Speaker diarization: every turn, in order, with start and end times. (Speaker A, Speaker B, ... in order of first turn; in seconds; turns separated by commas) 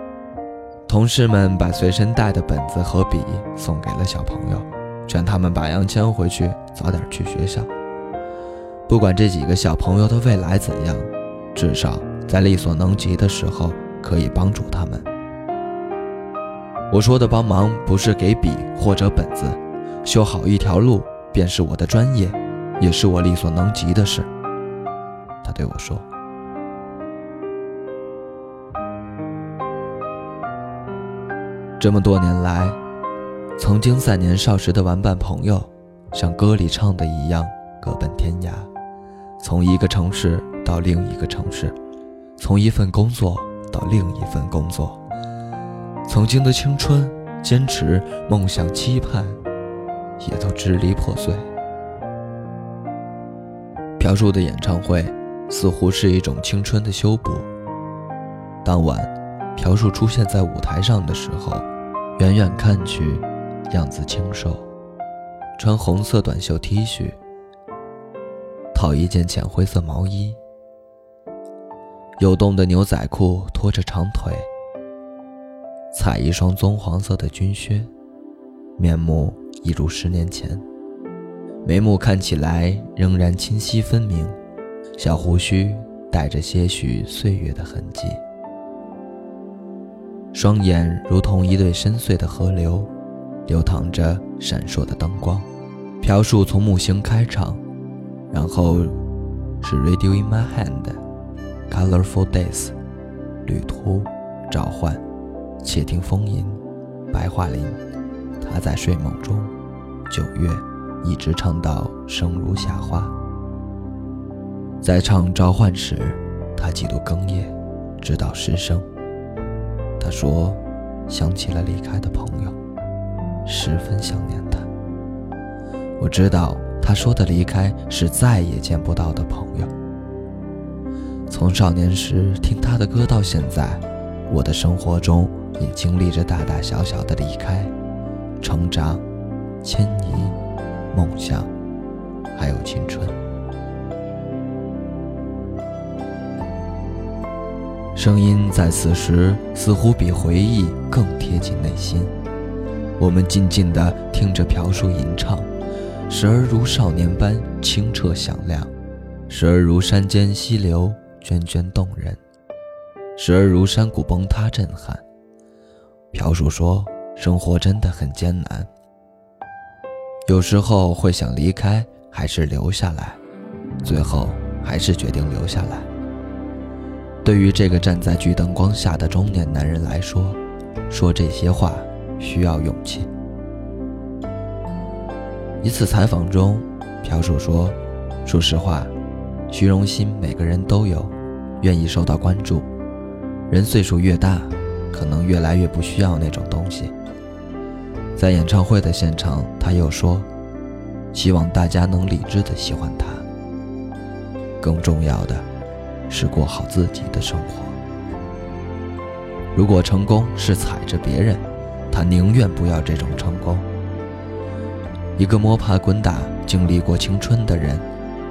Speaker A: 0.9-7.7, Speaker A: 8.9-15.1, Speaker A: 16.9-24.3, Speaker A: 25.4-26.1, Speaker A: 31.8-32.8, Speaker A: 33.6-38.7, Speaker A: 39.4-41.8, Speaker A: 42.4-45.0, Speaker A: 46.1-49.4, Speaker A: 50.2-51.5, Speaker A: 54.0-57.5, Speaker A: 58.6-64.7, Speaker A: 65.6-67.2, Speaker A: 68.7-70.4, Speaker A: 72.2-74.5, Speaker A: 75.9-77.9, Speaker A: 78.8-80.6, Speaker A: 81.6-84.3, Speaker A: 85.0-88.2, Speaker A: 90.3-92.9, Speaker A: 93.5-95.5, Speaker A: 96.0-97.6, Speaker A: 98.3-99.0, Speaker A: 99.6-101.0, Speaker A: 101.7-102.7, Speaker A: 103.5-105.0, Speaker A: 105.6-106.6, Speaker A: 107.1-107.8, Speaker A: 108.4-109.5, Speaker A: 110.1-113.1, Speaker A: 114.8-118.8, Speaker A: 120.0-122.6, Speaker A: 123.5-124.7, Speaker A: 126.0-129.7, Speaker A: 131.3-137.7, Speaker A: 138.4-139.0, Speaker A: 139.6-140.4, Speaker A: 140.9-141.5, Speaker A: 142.3-143.2, Speaker A: 147.9-152.1, Speaker A: 153.0-155.5, Speaker A: 156.1-158.7, Speaker A: 159.3-162.2, Speaker A: 163.2-165.0, Speaker A: 166.1-168.7, Speaker A: 170.3-173.2, Speaker A: 173.8-175.9, Speaker A: 177.2-183.1, Speaker A: 185.6-188.9, Speaker A: 189.5-192.7, Speaker A: 193.5-196.9, Speaker A: 198.2-200.3, Speaker A: 201.1-203.2, Speaker A: 204.6-205.4, Speaker A: 206.1-207.8, Speaker A: 209.5-213.7, Speaker A: 215.2-217.8